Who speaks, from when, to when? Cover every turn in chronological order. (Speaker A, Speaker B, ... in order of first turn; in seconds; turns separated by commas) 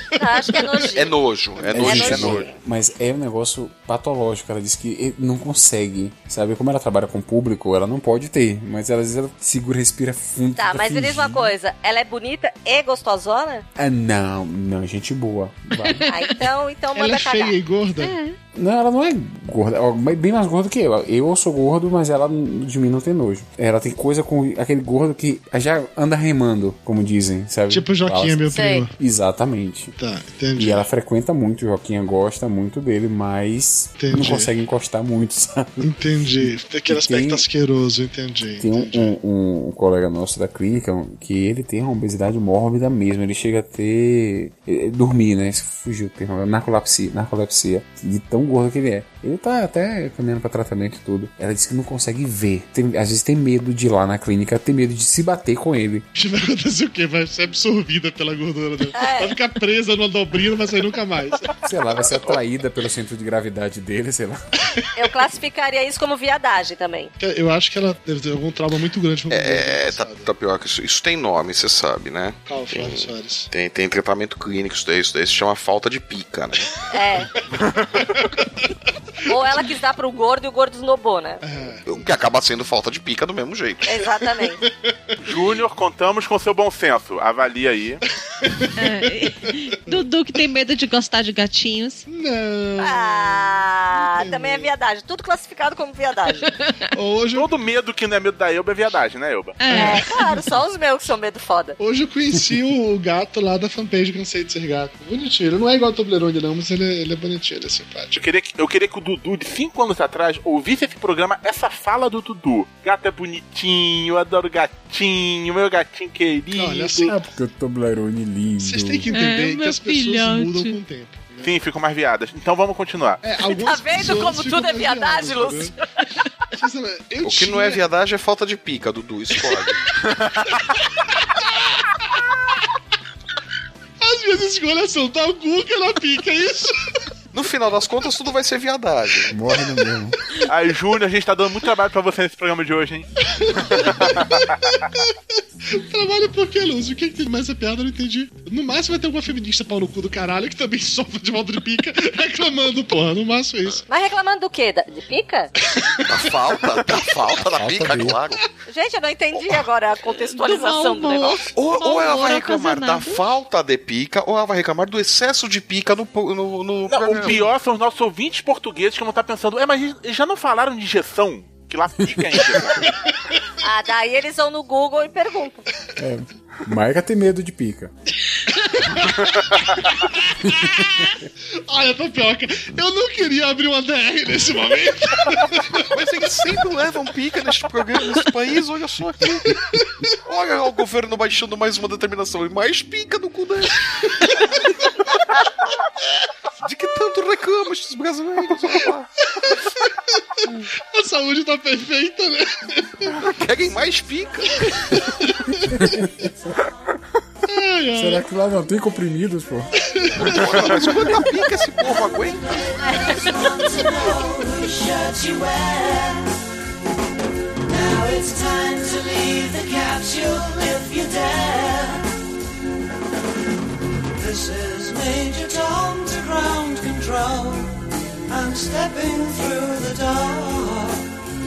Speaker A: 0.1-1.1, Speaker B: 0.9-2.5, Speaker C: 1.6-2.4, Speaker D: 1.7-11.5, Speaker A: 1.8-2.5, Speaker A: 10.6-13.6, Speaker D: 13.8-16.1, Speaker E: 15.8-16.3, Speaker A: 16.1-17.6, Speaker C: 16.9-18.1, Speaker E: 18.0-18.4, Speaker D: 18.5-29.9, Speaker C: 27.7-28.9, Speaker A: 28.5-28.9, Speaker C: 29.9-30.8, Speaker D: 30.6-35.9, Speaker C: 34.0-34.5, Speaker C: 35.8-39.1, Speaker D: 36.4-37.4, Speaker D: 38.6-56.0, Speaker C: 56.1-61.5, Speaker A: 58.9-59.4, Speaker D: 61.6-64.4, Speaker A: 65.0-67.1, Speaker C: 67.2-70.3, Speaker B: 69.3-76.7, Speaker C: 72.4-73.5, Speaker A: 76.9-77.3, Speaker C: 78.2-78.6, Speaker A: 79.2-81.4, Speaker C: 81.4-82.1, Speaker B: 81.9-84.0, Speaker A: 83.8-84.6, Speaker C: 84.6-84.9, Speaker F: 85.2-88.0, Speaker C: 88.4-89.0, Speaker E: 88.8-92.0, Speaker C: 92.1-94.7, Speaker A: 92.8-96.5, Speaker E: 96.6-96.9, Speaker C: 96.9-97.5, Speaker F: 97.3-99.6, Speaker E: 99.6-100.4, Speaker A: 99.7-101.8, Speaker C: 101.8-108.2, Speaker F: 108.1-117.1, Speaker C: 116.5-117.3, Speaker D: 117.3-119.1, Speaker C: 118.6-121.5, Speaker E: 119.1-120.8, Speaker F: 121.4-123.2, Speaker C: 123.2-125.7, Speaker A: 123.6-125.8, Speaker C: 126.5-127.8, Speaker B: 127.2-129.8, Speaker C: 130.5-132.6, Speaker C: 134.0-136.7, Speaker B: 137.3-139.3, Speaker D: 139.3-140.2, Speaker F: 140.4-143.1, Speaker C: 143.3-153.8, Speaker F: 143.7-144.4, Speaker A: 153.9-155.5, Speaker C: 155.7-156.5, Speaker B: 156.1-158.4, Speaker D: 157.6-158.2, Speaker A: 158.7-161.5, Speaker E: 160.2-163.3, Speaker B: 161.5-167.5, Speaker F: 166.9-172.9, Speaker A: 173.6-175.7, Speaker D: 176.0-177.9, Speaker C: 178.6-185.8, Speaker B: 185.9-189.6, Speaker C: 189.4-190.2, Speaker B: 190.2-194.4, Speaker C: 194.2-194.6, Speaker B: 196.6-199.1, Speaker C: 199.2-203.1, Speaker B: 203.1-205.1, Speaker C: 204.6-206.3, Speaker D: 205.8-206.3, Speaker C: 207.4-208.2, Speaker D: 207.9-209.8, Speaker C: 209.8-211.2, Speaker B: 210.2-212.7, Speaker G: 212.8-216.3, Speaker G: 217.7-222.0, Speaker G: 224.1-231.1